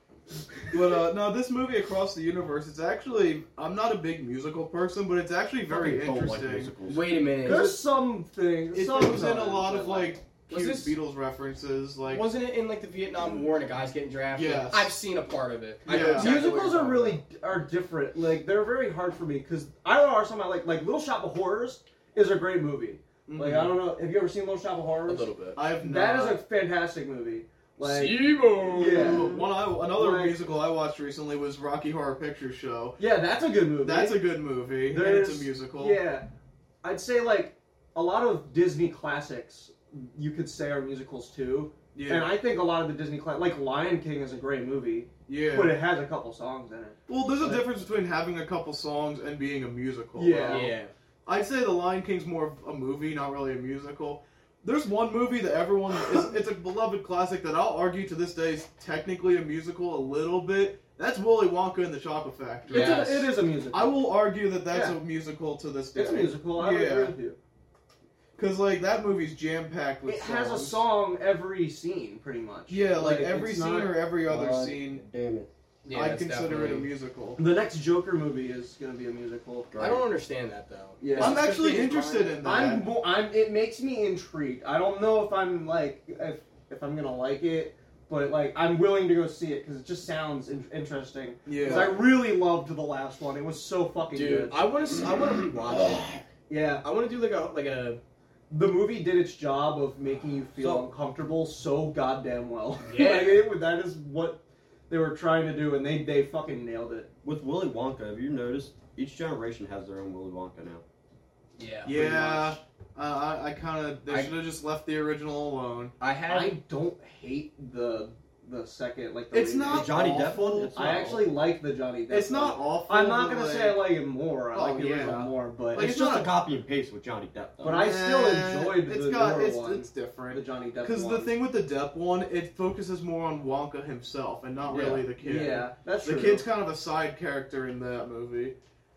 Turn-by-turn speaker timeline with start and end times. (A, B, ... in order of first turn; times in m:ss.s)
0:00.7-0:06.7 A
0:05.7-0:07.0 B
0:06.9-0:07.8 C
0:07.4-0:10.1 D
0:08.7-0:12.2 A
0:10.5-0:11.0 C
0:12.1-0:17.2 C
0:14.3-0:14.9 A
0:15.9-0:16.4 A
0:15.9-0:25.3 D
0:23.3-0:23.8 A
0:25.1-0:25.6 C
0:25.6-0:26.4 A
0:25.8-0:30.4 D
0:27.8-0:29.3 C
0:28.3-0:33.0 A
0:33.0-0:34.2 D
0:33.8-0:36.0 A
0:34.9-0:36.3 D
0:36.8-0:47.7 D
0:41.9-0:42.3 A
0:45.3-0:45.8 A
0:47.1-0:50.8 A
0:50.2-0:50.7 D
0:50.5-0:50.9 C
0:51.3-1:07.2 A
1:02.7-1:04.0 D
1:02.7-1:03.2 C
1:04.7-1:05.0 D
1:06.0-1:07.4 D
1:08.4-1:10.8 A
1:10.1-1:14.0 D
1:12.7-1:15.0 A
1:14.2-1:15.5 B
1:15.8-1:16.9 C
1:15.9-1:17.4 A
1:17.4-1:19.7 D
1:19.7-1:20.0 B
1:19.8-1:22.4 C
1:21.0-1:21.5 D
1:21.2-1:22.9 A
1:22.4-1:34.6 D
1:31.5-1:32.0 A
1:34.1-1:36.2 C
1:36.5-1:36.8 D
1:36.8-1:38.0 C
1:38.5-1:47.1 D
1:40.6-1:40.9 B
1:42.8-1:43.5 C
1:47.2-1:50.8 B
1:51.6-1:52.5 C
1:51.8-1:55.9 A
1:54.1-1:54.4 C
1:56.0-1:56.6 C
1:56.3-2:06.2 D
1:59.3-2:00.7 A
1:59.7-2:01.4 B
2:02.1-2:03.9 A
2:04.5-2:06.2 A
2:05.7-2:07.9 B
2:07.6-2:11.3 D
2:07.6-2:18.6 A
2:14.7-2:15.0 B
2:14.8-2:16.5 D